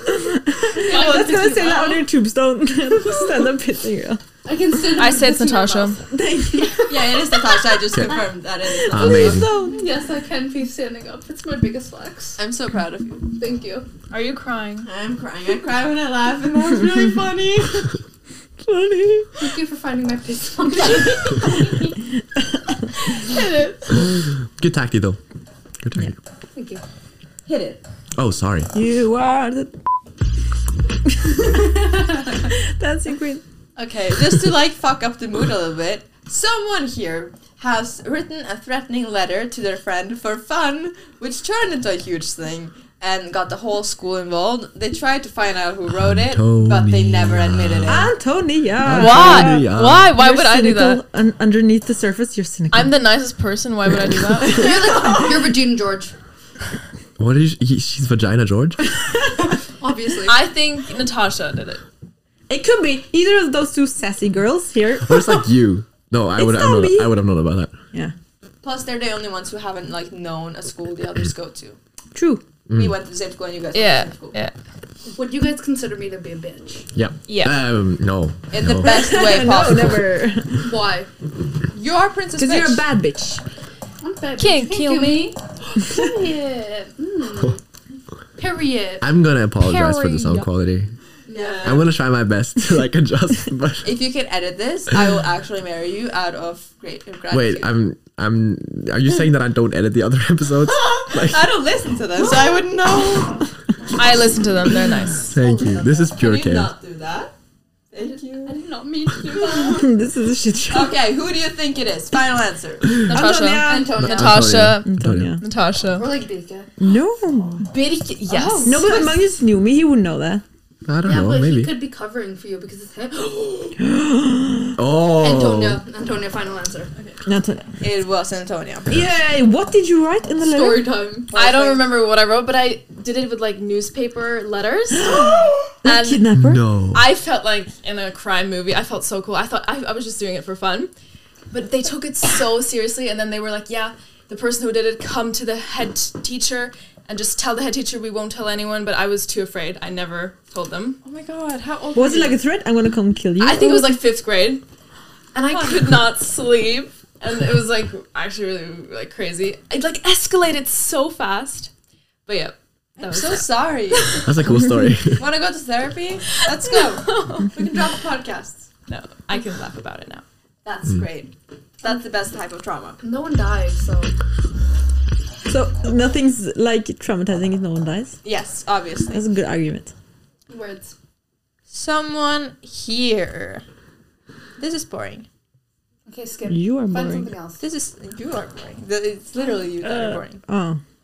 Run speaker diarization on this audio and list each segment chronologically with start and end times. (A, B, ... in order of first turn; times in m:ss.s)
0:00.3-0:04.2 A
0:00.7-0:02.0 B
0:00.8-0:01.9 C
0:04.4-0:06.8 B
0:05.0-0:06.0 D
0:06.1-0:07.4 A
0:06.9-0:09.7 C
0:07.9-0:08.2 E
0:08.8-0:09.5 E
0:09.2-0:09.7 D
0:09.4-0:12.4 B
0:12.4-0:13.3 C
0:13.4-0:13.9 B
0:14.1-0:14.9 D
0:14.8-0:17.9 C
0:18.6-0:19.3 A
0:19.4-0:22.0 B
0:20.9-0:21.4 C
0:23.2-0:23.7 C
0:24.6-0:25.2 E
0:25.8-0:26.1 E
0:26.6-0:26.8 B
0:27.4-0:27.8 C
0:28.1-0:28.7 E
0:28.7-0:29.7 A
0:31.2-0:33.4 A
0:33.8-0:48.1 C
0:45.9-0:48.1 E
0:47.9-0:53.0 A
0:48.8-0:50.1 E
0:48.8-0:51.0 D
0:52.7-0:54.8 D
0:54.4-0:56.1 B
0:57.2-0:58.9 E
0:59.8-1:00.4 B
1:00.3-1:01.8 D
1:02.5-1:05.4 A
1:05.0-1:07.8 E
1:06.4-1:07.1 A
1:08.6-1:11.8 C
1:12.1-1:12.4 A
1:12.7-1:14.4 C
1:12.7-1:12.9 E
1:13.7-1:14.6 D
1:15.1-1:16.9 B
1:16.9-1:18.9 E
1:17.3-1:17.6 D
1:18.5-1:20.1 C
1:18.8-1:20.7 A
1:20.6-1:21.1 B
1:21.7-1:22.8 C
1:22.4-1:23.4 A
1:24.0-1:27.6 B
1:24.4-1:25.3 D
1:28.4-1:29.1 B
1:29.0-1:30.9 E
1:29.6-1:30.5 D
1:31.3-1:31.9 B
1:31.3-1:31.8 C
1:31.6-1:33.9 E
1:33.8-1:37.7 C
1:37.3-1:41.4 E
1:40.7-1:43.4 C
1:43.9-1:45.3 D
1:45.3-1:46.7 E
1:45.3-1:46.1 B
1:46.1-1:47.3 C
1:47.9-1:48.6 C
1:48.1-1:49.9 B
1:49.6-1:51.0 A
1:50.7-1:53.1 C
1:53.1-1:54.5 B
1:53.1-1:54.1 A
1:53.1-1:56.1 D
1:54.1-1:55.4 E
1:54.8-1:55.4 A
1:56.0-1:56.7 B
1:56.8-1:57.7 A
1:57.7-1:59.0 D
1:58.3-1:59.2 B
1:58.6-2:00.4 A
2:00.9-2:01.7 E
2:01.0-2:03.8 B
2:03.8-2:04.8 A
2:04.8-2:05.8 E
2:05.2-2:06.9 B
2:07.2-2:07.8 A
2:07.8-2:08.9 C
2:08.9-2:10.9 A
2:10.4-2:11.4 B
2:11.3-2:11.8 C
2:11.3-2:15.3 D
2:15.1-2:16.6 A
2:15.8-2:16.3 D
2:16.4-2:17.1 E
2:16.9-2:20.9 D
2:21.5-2:31.0 D
2:31.0-2:32.4 C
2:31.9-2:34.0 A
2:33.4-2:34.6 D
2:35.3-2:41.7 D
2:35.4-2:35.9 C
2:42.2-2:44.3 D
2:43.0-2:44.2 C
2:44.2-2:45.3 E
2:45.2-2:48.7 C
2:46.9-2:47.5 D
2:48.9-2:50.2 D
2:50.6-2:53.0 C
2:53.0-2:54.1 B
2:55.5-2:58.2 A
2:58.2-2:59.2 C
2:59.1-2:59.9 A
3:00.5-3:00.9 B
3:01.7-3:03.6 C
3:04.6-3:05.2 C
3:06.1-3:07.6 B
3:06.5-3:07.3 A
3:07.6-3:10.4 C
3:09.8-3:10.8 A